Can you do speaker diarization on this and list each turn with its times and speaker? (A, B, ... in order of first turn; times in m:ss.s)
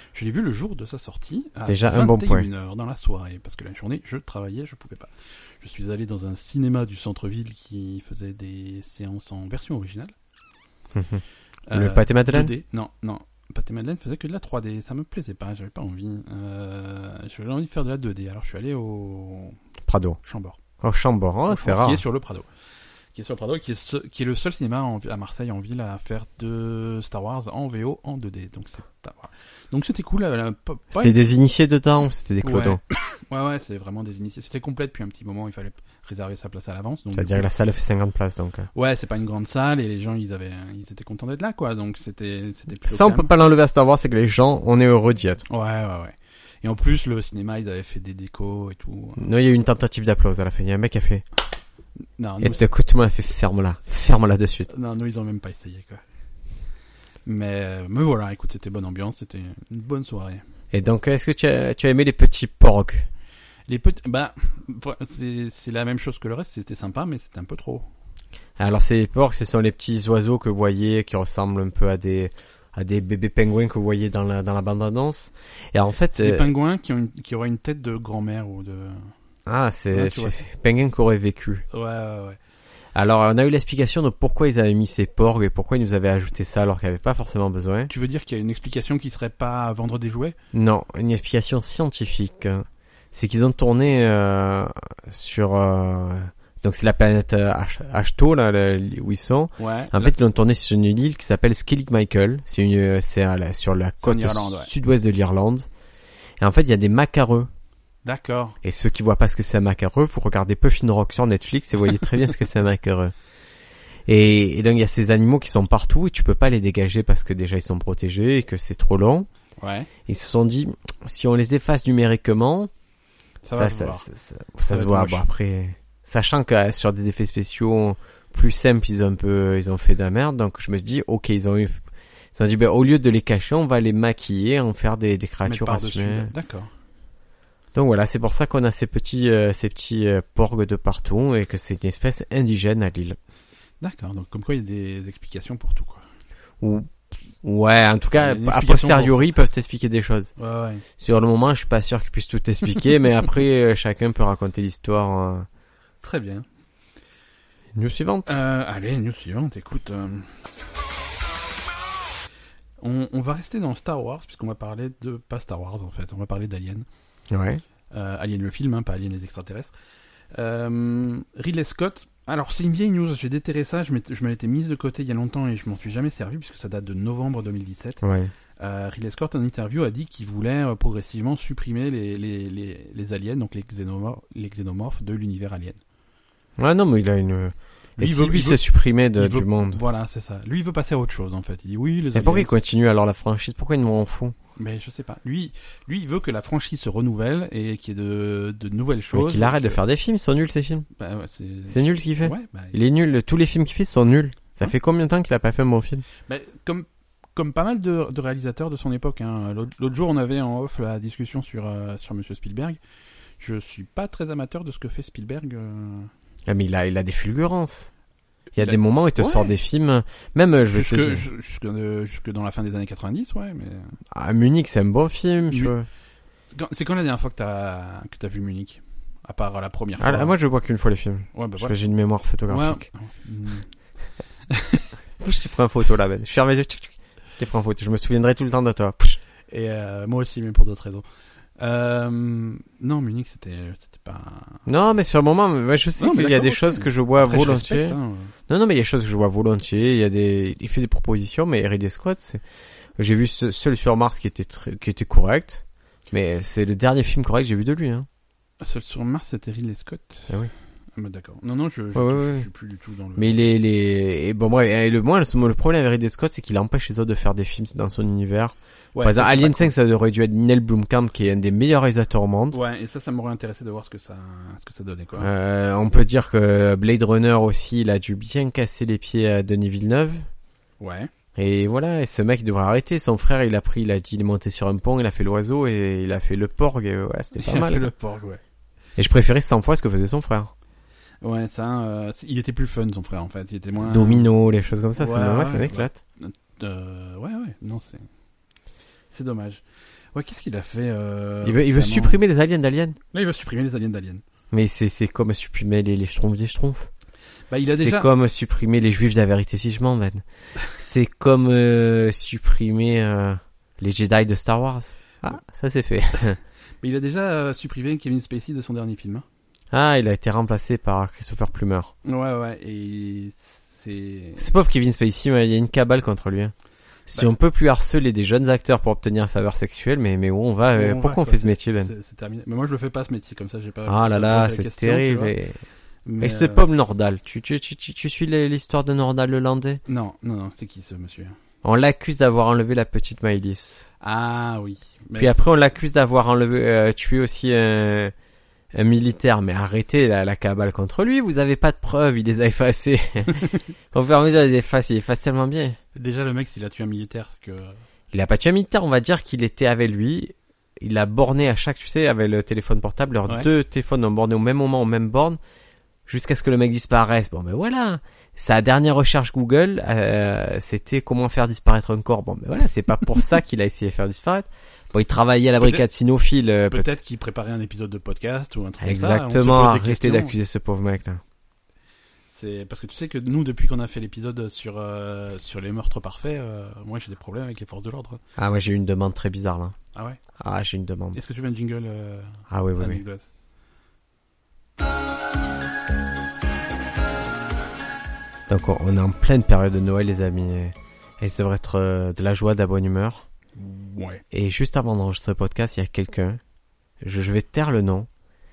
0:00.1-0:10.1 A
0:01.7-0:02.5 B
0:10.9-0:12.5 B
0:11.7-0:19.6 A
0:19.8-0:20.2 B
0:20.2-0:20.6 A
0:20.8-0:22.0 B
0:21.5-0:22.5 A
0:23.1-0:31.2 A
0:30.9-0:32.8 B
0:32.4-0:37.5 A
0:37.1-0:38.7 B
0:38.7-0:43.3 A
0:42.9-0:45.4 B
0:45.5-0:49.3 A
0:49.2-0:51.2 B
0:52.2-0:52.6 A
0:52.4-0:54.7 B
0:54.7-0:56.0 A
0:57.3-1:00.4 A
1:00.7-1:03.1 B
1:03.7-1:07.9 A
1:08.6-1:16.5 B
1:16.1-1:19.1 A
1:19.5-1:21.7 B
1:19.9-1:20.5 A
1:21.7-1:22.4 A
1:23.0-1:27.9 B
1:27.9-1:30.4 A
1:30.5-1:45.7 B
1:39.6-1:40.1 A
1:44.0-1:44.7 A
1:46.4-1:47.5 B
1:48.0-1:48.6 A
1:48.6-1:53.1 B
1:54.1-1:59.3 B
1:59.6-1:59.9 A
2:00.1-2:02.7 B
2:03.4-2:04.1 A
2:03.5-2:11.8 B
2:04.7-2:05.2 A
2:12.4-2:16.3 B
2:15.4-2:16.7 A
2:17.8-2:23.2 B
2:23.8-2:26.0 A
2:26.6-2:30.3 B
2:28.2-2:29.2 A
2:30.4-2:30.8 A
2:31.0-2:35.5 B
2:36.0-2:36.5 A
2:37.8-2:38.4 B
2:38.3-2:40.4 A
2:42.8-2:46.9 A
2:47.3-2:47.6 B
2:47.9-2:49.7 A
2:50.3-2:58.0 A
2:58.0-2:58.3 B
2:58.6-3:05.8 A
3:06.6-3:09.8 B
3:08.0-3:08.6 A
3:09.2-3:12.5 A
3:12.1-3:14.4 B
3:14.6-3:19.8 A
3:19.1-3:20.9 B
3:21.0-3:22.8 A
3:21.7-3:26.0 B
3:26.3-3:32.8 A
3:33.4-3:36.1 A
3:36.5-3:37.9 B
3:38.5-3:41.2 B
3:38.6-3:39.5 A
3:40.7-3:44.0 A
3:44.1-3:45.9 B
3:46.5-3:50.4 A
3:50.0-3:52.8 B
3:51.3-3:51.8 A
3:52.5-3:53.7 A
3:54.5-3:54.9 A
3:55.2-3:59.2 B
3:59.5-4:01.1 A
4:01.6-4:04.7 A
4:04.7-4:12.4 B
4:06.0-4:08.3 A
4:13.0-4:18.1 B
4:18.6-4:20.3 A
4:21.0-4:23.4 A
4:22.0-4:22.5 B
4:23.2-4:32.6 B
4:29.0-4:29.7 A
4:32.5-4:35.3 A
4:35.2-4:40.3 B
4:40.8-4:41.1 A
4:41.4-4:47.9 B
4:47.4-4:48.4 A
4:49.0-4:50.5 B
4:51.2-4:54.3 A
4:53.8-4:56.0 B
4:55.0-4:58.1 A
4:59.1-5:02.2 A
5:01.4-5:03.0 B
5:03.1-5:04.2 A
5:04.5-5:06.9 B
5:07.5-5:08.1 A
5:07.8-5:16.4 B
5:16.8-5:19.2 A
5:19.7-5:21.9 B
5:22.0-5:24.5 A
5:24.4-5:26.5 B
5:27.1-5:31.9 B
5:30.7-5:35.4 A
5:33.9-5:35.6 B
5:36.1-5:36.7 A
5:36.2-5:39.8 B
5:39.9-5:41.4 A
5:41.6-5:43.8 B
5:44.0-5:45.4 A
5:45.2-5:48.1 B
5:48.7-5:55.8 B
5:56.0-5:57.8 A
5:58.1-6:05.4 B
6:06.1-6:16.9 B
6:16.7-6:20.3 A
6:18.8-6:21.2 B
6:22.3-6:28.2 A
6:28.4-6:29.8 B
6:29.9-6:30.2 A
6:30.4-6:31.2 B
6:31.1-6:33.3 A
6:32.5-6:33.0 B
6:38.5-6:43.3 B
6:43.6-6:44.2 A
6:44.3-6:46.4 B
6:47.0-6:48.1 B